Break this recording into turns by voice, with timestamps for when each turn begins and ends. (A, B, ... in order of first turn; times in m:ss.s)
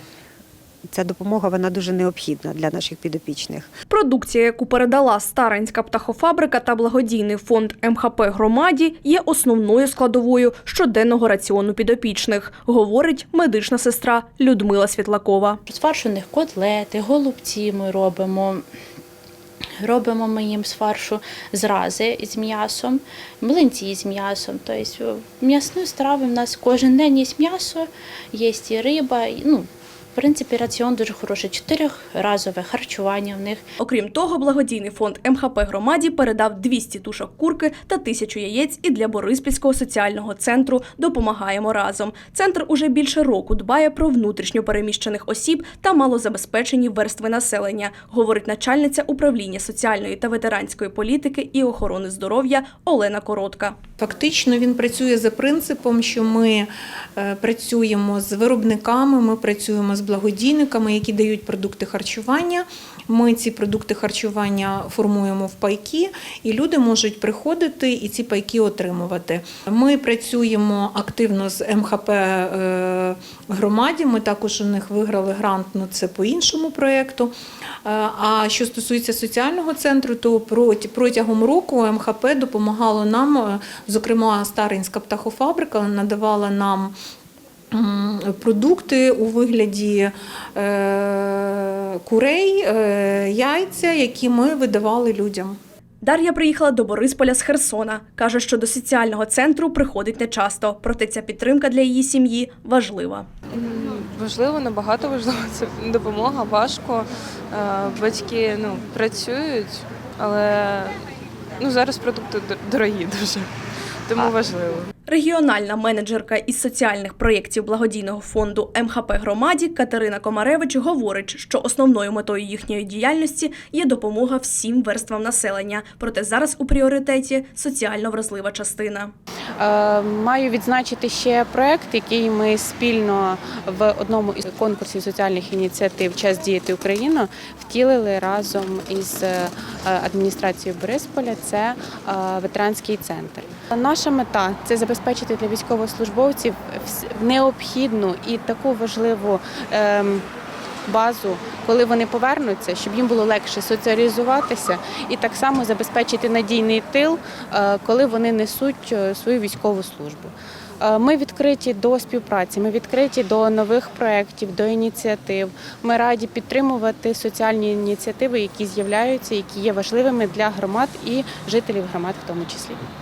0:00.9-0:03.7 A
0:03.9-0:15.6 B
0:15.7-0:18.6 C
0:19.8-0:33.6 C
0:33.8-0:53.8 B
0:54.0-0:56.6 D
0:57.2-1:17.3 D
1:17.8-1:26.9 D
1:27.7-1:31.0 D
1:32.1-1:35.6 D
1:36.0-1:43.3 B
1:43.5-1:51.0 E
1:51.6-1:53.5 E
1:54.1-1:54.9 E
1:55.1-2:09.1 B
2:09.6-2:30.2 F
2:30.9-2:40.3 F
2:40.8-2:52.8 F